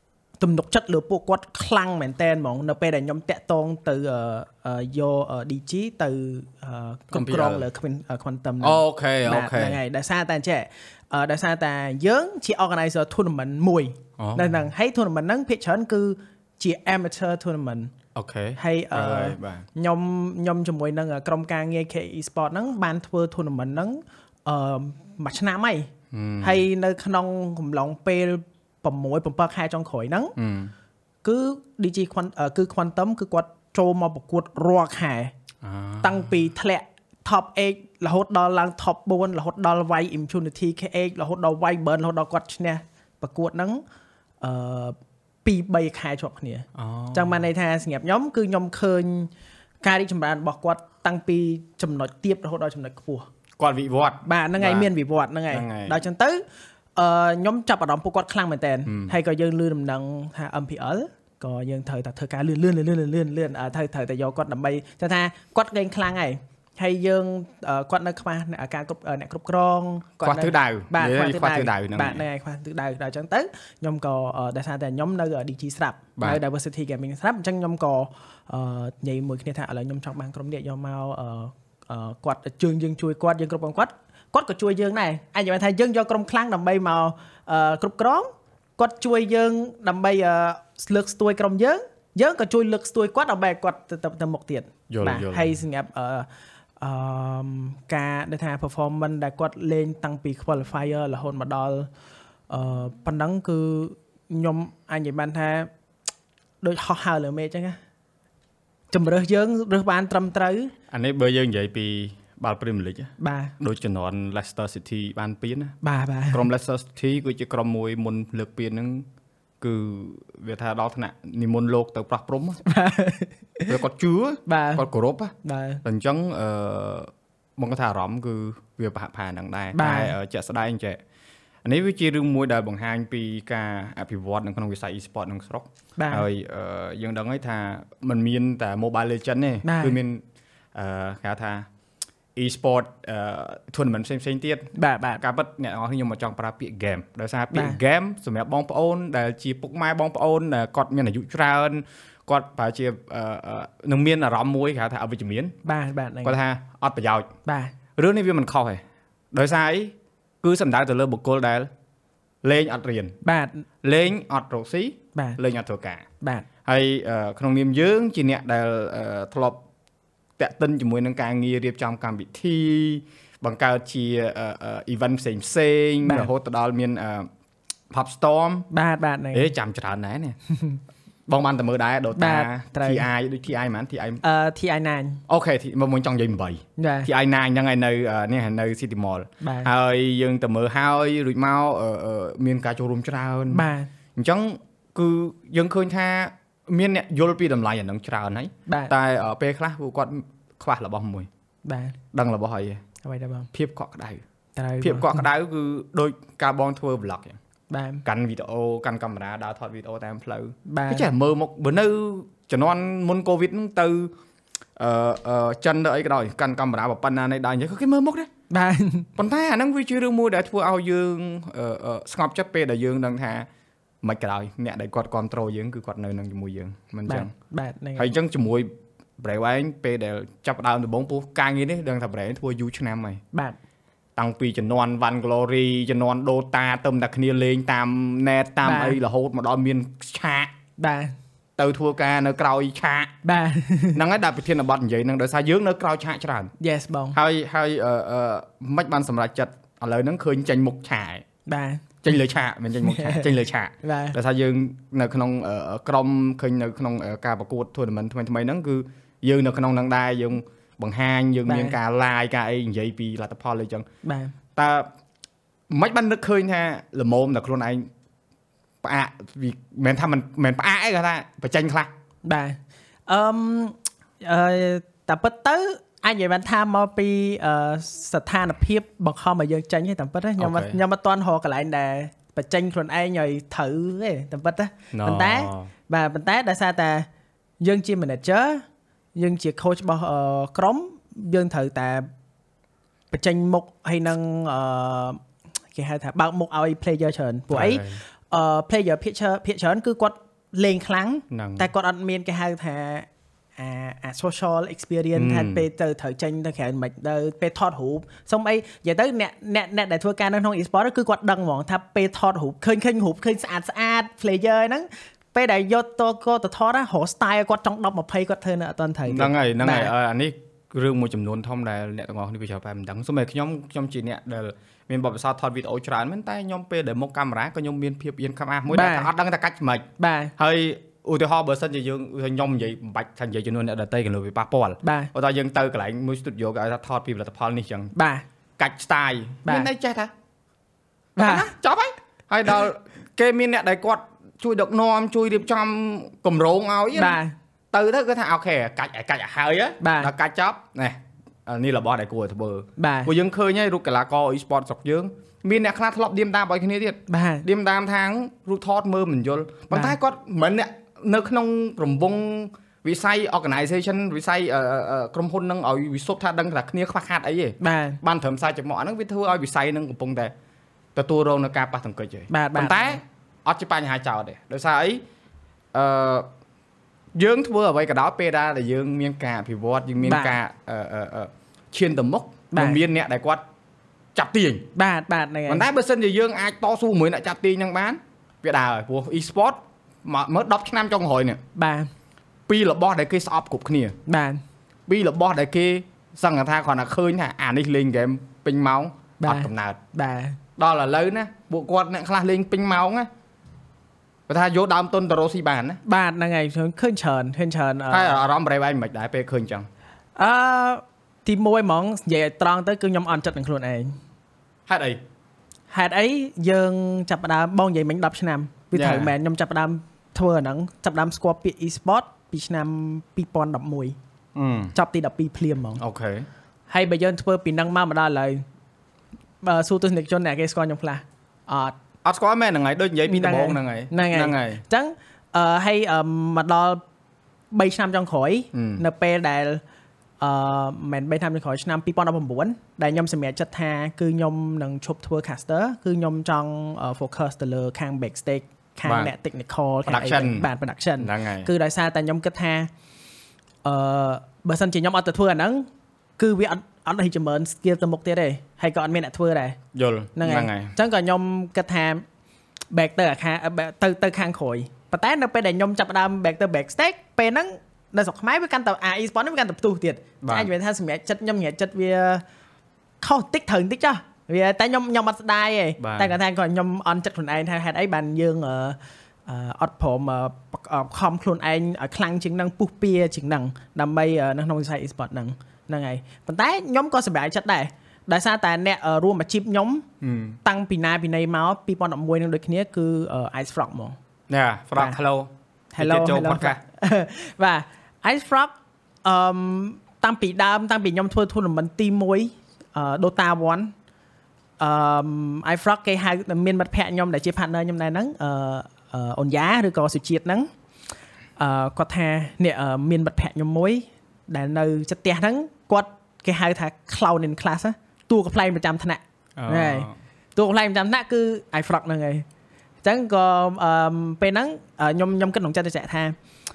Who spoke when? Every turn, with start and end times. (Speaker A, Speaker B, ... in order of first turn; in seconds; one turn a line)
Speaker A: 0.4-17.9
Speaker B: 7.1-7.7
Speaker B: 8.6-9.8
Speaker B: 14.2-14.6
Speaker B: 18.1-19.7
Speaker A: 18.6-30.4
Speaker B: 26.1-26.6
Speaker B: 30.4-30.7
Speaker A: 31.2-35.3
Speaker B: 35.6-36.3
Speaker A: 36.0-43.8
Speaker A: 44.4-49.3
Speaker B: 46.8-47.5
Speaker A: 49.8-53.3
Speaker B: 53.6-54.9
Speaker A: 54.2-56.4
Speaker B: 55.5-56.0
Speaker A: 57.0-96.3
Speaker B: 58.9-59.1
Speaker B: 70.2-72.2
Speaker B: 94.9-95.6
Speaker A: 96.8-101.9
Speaker A: 102.5-105.7
Speaker A: 106.6-107.8
Speaker A: 108.9-110.7
Speaker B: 110.9-115.8
Speaker A: 113.2-113.5
Speaker A: 115.8-116.5
Speaker B: 116.3-119.1
Speaker B: 119.6-122.6
Speaker A: 122.7-123.8
Speaker B: 123.7-131.0
Speaker A: 124.5-124.8
Speaker A: 125.4-125.8
Speaker A: 129.7-130.1
Speaker B: 131.6-140.2
Speaker A: 136.0-136.2
Speaker A: 139.6-140.0
Speaker B: 140.7-141.7
Speaker B: 142.3-155.5
Speaker A: 144.8-145.2
Speaker A: 147.5-147.8
Speaker A: 155.7-156.4
Speaker B: 156.2-157.3
Speaker A: 157.5-157.7
Speaker B: 158.0-161.7
Speaker B: 162.4-163.2
Speaker A: 163.2-163.7
Speaker B: 163.8-166.1
Speaker A: 166.2-166.5
Speaker B: 166.7-169.6
Speaker B: 170.4-177.3
Speaker A: 176.0-176.3
Speaker B: 177.9-178.7
Speaker A: 178.7-179.5
Speaker B: 179.3-180.4
Speaker A: 180.5-180.8
Speaker B: 181.3-184.2
Speaker A: 182.2-183.1
Speaker A: 184.2-185.2
Speaker B: 185.3-193.7
Speaker A: 186.8-187.1
Speaker A: 189.4-189.7
Speaker A: 193.5-193.9
Speaker B: 194.2-201.3
Speaker A: 198.7-198.9
Speaker A: 201.7-202.0
Speaker B: 202.1-202.8
Speaker A: 203.0-203.5
Speaker B: 203.5-204.2
Speaker A: 204.6-205.2
Speaker B: 204.8-207.4
Speaker A: 207.7-208.0
Speaker B: 208.1-214.1
Speaker A: 210.7-211.1
Speaker B: 214.8-218.3
Speaker A: 218.5-219.1
Speaker B: 219.2-223.5
Speaker B: 224.0-227.3
Speaker A: 227.1-228.1
Speaker B: 228.0-233.2
Speaker A: 233.3-233.6
Speaker B: 234.2-240.5
Speaker A: 238.6-239.0
Speaker A: 240.8-241.2
Speaker B: 241.6-243.1
Speaker A: 243.2-244.0
Speaker B: 243.9-246.5
Speaker A: 246.6-247.2
Speaker B: 247.1-251.2
Speaker A: 251.5-251.9
Speaker B: 252.0-263.9
Speaker A: 252.8-253.3
Speaker A: 253.8-254.2
Speaker A: 261.5-261.8
Speaker A: 264.0-264.3
Speaker B: 264.6-264.9
Speaker B: 265.7-267.9
Speaker B: 268.8-271.9
Speaker A: 272.2-287.1
Speaker B: 280.4-280.8
Speaker B: 284.9-285.7
Speaker A: 287.6-288.6
Speaker A: 289.2-292.1
Speaker A: 293.1-295.2
Speaker A: 295.7-303.1
Speaker B: 297.5-298.0
Speaker B: 301.3-301.7
Speaker A: 303.6-319.9
Speaker B: 305.1-305.7
Speaker B: 319.1-329.9
Speaker A: 328.7-329.1
Speaker A: 330.0-330.3
Speaker B: 330.4-337.9
Speaker A: 334.8-335.1
Speaker A: 337.9-338.2
Speaker B: 338.6-340.1
Speaker A: 341.2-341.5
Speaker B: 341.2-347.2
Speaker A: 347.0-347.4
Speaker B: 347.7-370.3
Speaker A: 349.8-350.1
Speaker A: 352.8-353.1
Speaker A: 357.1-357.5
Speaker A: 359.7-360.0
Speaker A: 367.6-368.0
Speaker B: 370.9-375.0
Speaker A: 372.3-373.0
Speaker B: 375.7-376.3
Speaker B: 377.1-383.4
Speaker A: 380.0-380.4
Speaker A: 382.5-382.8
Speaker B: 384.1-384.7
Speaker A: 384.8-385.7
Speaker B: 385.5-391.4
Speaker A: 391.6-391.9
Speaker B: 392.5-393.9
Speaker A: 394.1-394.4
Speaker B: 394.9-399.8
Speaker A: 399.2-400.4
Speaker B: 400.6-403.1
Speaker B: 404.3-405.8
Speaker A: 405.9-408.2
Speaker B: 407.9-409.7
Speaker A: 410.2-414.0
Speaker B: 414.7-415.0
Speaker A: 415.7-424.0
Speaker B: 418.7-419.1
Speaker B: 424.4-424.7
Speaker A: 424.8-425.8
Speaker B: 425.8-426.3
Speaker A: 426.7-428.4
Speaker A: 429.4-431.8
Speaker B: 432.0-434.6
Speaker A: 433.1-436.8
Speaker A: 437.5-439.6
Speaker B: 438.5-438.8
Speaker A: 440.2-452.7
Speaker B: 448.9-449.1
Speaker B: 449.9-451.5
Speaker A: 453.6-455.7
Speaker A: 456.2-459.6
Speaker B: 459.7-460.7
Speaker A: 460.2-462.1
Speaker A: 462.7-472.2
Speaker B: 470.2-470.5
Speaker A: 473.0-489.9
Speaker B: 475.8-476.2
Speaker B: 490.0-490.4
Speaker A: 490.4-494.0
Speaker B: 494.3-496.6
Speaker A: 495.7-498.5
Speaker A: 499.1-503.7
Speaker A: 504.6-510.5
Speaker A: 511.4-522.2
Speaker B: 519.4-519.9
Speaker A: 522.8-526.2